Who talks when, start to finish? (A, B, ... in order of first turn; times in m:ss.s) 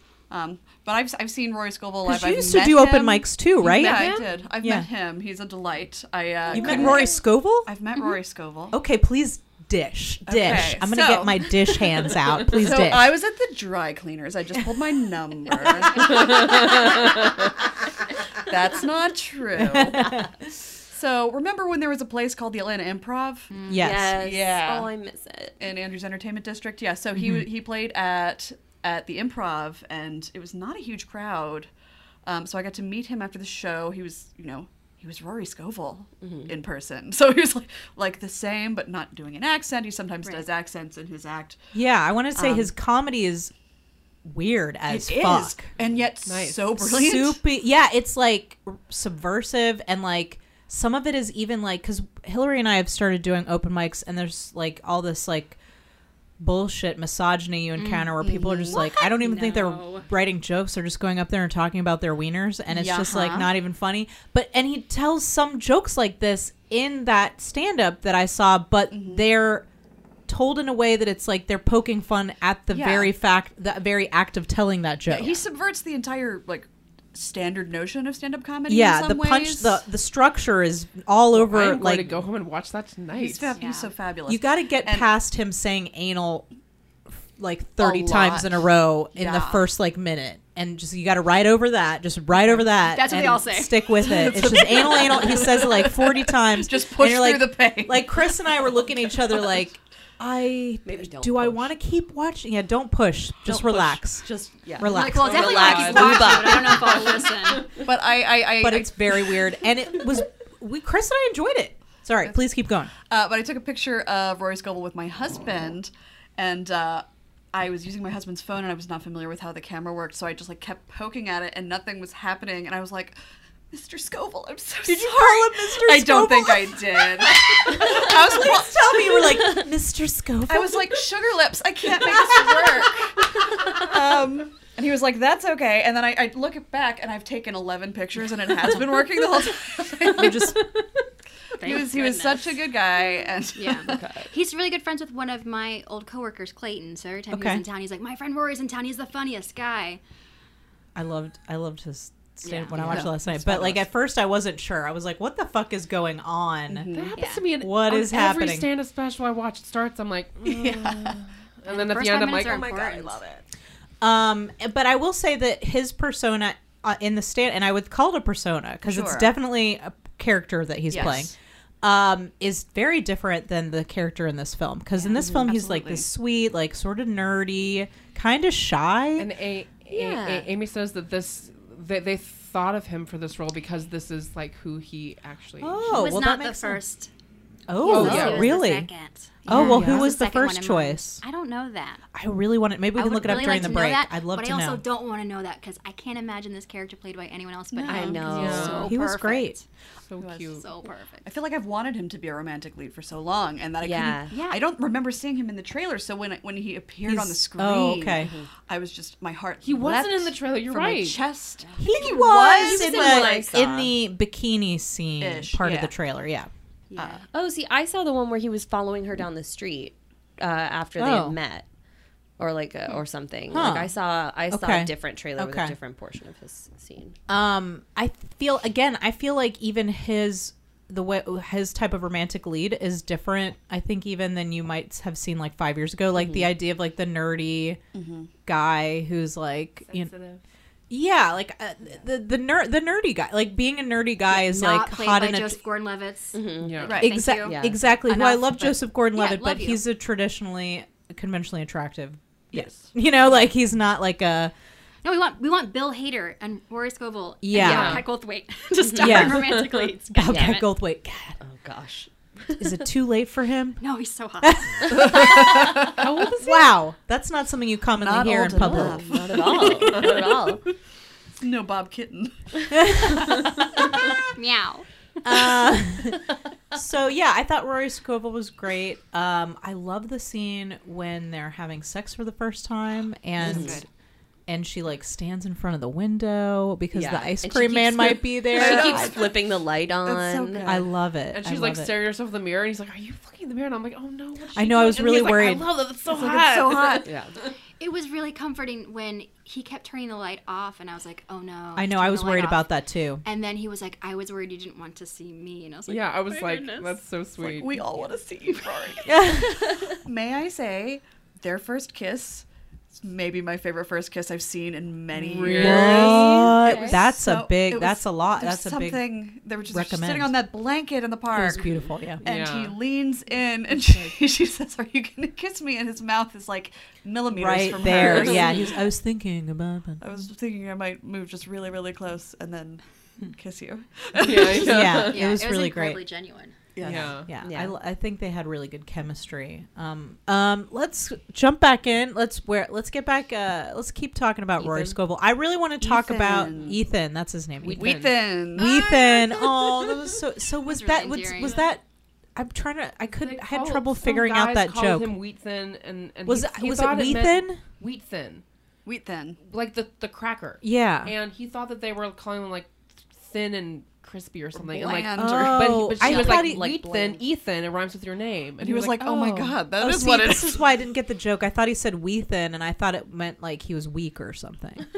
0:00.3-0:08.8 A
0:02.0-0:04.9 B
0:03.9-0:04.2 C
0:06.5-0:07.7 B
0:07.9-0:08.2 C
0:08.7-0:13.2 B
0:10.2-0:17.2 A
0:16.1-0:16.7 D
0:18.4-0:20.3 A
0:19.6-0:20.3 B
0:20.9-0:23.6 A
0:23.5-0:23.9 C
0:23.7-0:24.2 B
0:23.8-0:25.6 E
0:24.2-0:24.9 A
0:25.6-0:31.7 A
0:27.2-0:27.4 B
0:32.2-0:41.6 A
0:36.2-0:36.5 E
0:41.7-0:43.5 B
0:42.4-0:42.7 A
0:44.2-0:45.7 B
0:44.9-0:47.4 A
0:46.2-0:46.8 D
0:46.8-0:55.6 B
0:56.4-1:09.7 B
0:57.8-0:58.2 C
0:58.2-0:58.8 A
0:58.7-1:00.1 C
1:02.8-1:03.5 C
1:08.9-1:09.2 A
1:10.3-1:15.4 B
1:12.7-1:13.1 A
1:15.1-1:19.8 A
1:18.7-1:22.3 B
1:21.3-1:23.6 D
1:23.1-1:25.1 A
1:23.5-1:23.9 C
1:24.3-1:26.5 B
1:27.3-1:46.4 B
1:27.8-1:28.6 A
1:29.1-1:29.6 A
1:32.8-1:33.9 C
1:34.0-1:38.5 A
1:40.8-1:41.7 E
1:43.5-1:46.9 E
1:44.8-1:47.8 C
1:45.2-1:46.2 D
1:45.7-1:45.9 A
1:46.7-1:49.3 A
1:48.6-1:52.9 B
1:53.1-2:03.2 A
2:03.7-2:09.6 A
2:04.8-2:11.0 B
2:10.5-2:20.5 A
2:20.1-2:20.7 B
2:21.6-2:23.0 C
2:21.6-2:24.0 A
2:23.6-2:30.0 C
2:23.9-2:24.3 E
2:27.3-2:27.6 B
2:30.9-2:36.9 B
2:32.4-2:32.8 C
2:32.7-2:33.1 E
2:36.7-2:37.2 A
2:36.9-2:43.3 D
2:37.1-2:37.5 C
2:37.5-2:38.7 B
2:40.4-2:41.2 A
2:41.6-2:43.3 C
2:44.0-2:59.3 B
2:48.8-2:49.4 A
2:50.9-2:51.3 A
2:55.1-2:56.1 A
2:55.2-2:55.5 E
2:59.2-3:06.0 D
2:59.9-3:00.5 E
3:05.6-3:06.8 B
3:05.9-3:07.1 C
3:07.7-3:08.9 B
3:07.8-3:12.0 C
3:07.9-3:08.6 D
3:09.4-3:11.2 B
3:09.5-3:10.1 D
3:12.1-3:14.8 B
3:12.9-3:19.6 C
3:13.2-3:13.7 D
3:17.8-3:18.4 A
3:17.9-3:18.9 E
3:18.2-3:18.9 D
3:18.8-3:19.6 B
3:20.0-3:20.6 D
3:20.2-3:20.7 A
3:20.6-3:21.4 C
3:21.2-3:33.8 A
3:23.8-3:24.4 E
3:24.3-3:24.6 C
3:27.0-3:28.3 B
3:28.2-3:28.5 E
3:29.6-3:31.2 D
3:31.7-3:32.1 C
3:31.8-3:36.5 B
3:32.6-3:33.9 E
3:35.2-3:36.0 A
3:36.9-3:37.2 C
3:37.0-3:37.2 A
3:37.3-3:41.7 E
3:41.0-3:41.4 B
3:42.4-3:47.2 E
3:43.5-3:44.0 B
3:44.5-3:45.8 B
3:47.3-3:57.8 B
3:56.1-3:56.5 E
3:57.9-3:58.3 A
3:58.5-4:00.1 B
3:59.9-4:00.4 D
4:00.9-4:05.6 B
4:04.3-4:09.8 C
4:06.3-4:07.8 E
4:06.6-4:07.0 D
4:06.9-4:07.2 A
4:07.0-4:14.5 B
4:15.0-4:20.7 C
4:17.4-4:18.1 B
4:17.5-4:18.0 D
4:18.8-4:19.2 E
4:19.0-4:21.4 B
4:19.4-4:19.8 D
4:20.3-4:20.6 E
4:21.4-4:22.8 E
4:22.5-4:23.8 B
4:23.8-4:25.9 C
4:24.4-4:25.5 B
4:25.4-4:26.0 A
4:26.0-4:26.8 D
4:26.2-4:29.0 B
4:28.0-4:30.4 A
4:28.6-4:30.6 E
4:31.4-4:34.2 A
4:32.8-4:33.4 B
4:34.3-4:34.9 C
4:35.2-4:43.8 B
4:43.4-4:43.9 A
4:43.4-4:43.8 E
4:44.5-4:49.1 B
4:46.9-4:50.7 E
4:48.5-4:49.5 A
4:50.0-4:50.9 A
4:50.6-4:52.0 B
4:51.3-4:57.5 D
4:54.5-4:55.7 B
4:56.1-4:57.1 A
4:57.0-4:57.3 E
4:57.8-5:02.7 C
5:01.8-5:03.2 B
5:03.2-5:07.0 C
5:05.9-5:07.7 D
5:07.4-5:28.9 A
5:09.0-5:09.6 B
5:15.2-5:16.2 D
5:15.4-5:19.0 B
5:16.6-5:17.0 E
5:19.7-5:20.4 B
5:21.3-5:22.2 B
5:22.2-5:22.8 D
5:27.3-5:30.0 B
5:30.0-5:35.0 A
5:34.2-5:35.4 D
5:34.5-5:36.0 B
5:35.1-5:36.6 C
5:36.8-5:37.3 A
5:36.8-5:37.3 D
5:36.8-5:51.8 B
5:37.4-5:37.8 E
5:44.6-5:45.0 D
5:45.8-5:46.8 A
5:47.6-5:48.2 D
5:47.8-5:48.7 A
5:48.6-5:49.7 C
5:50.6-5:51.6 C
5:52.4-5:55.2 B
5:53.1-5:58.4 D
5:56.2-5:57.6 B
5:58.9-5:59.4 A
5:59.4-6:09.6 D
6:00.6-6:01.1 B
6:04.5-6:05.9 A
6:05.1-6:06.8 B
6:06.0-6:07.2 E
6:08.6-6:10.6 A
6:09.8-6:14.9 B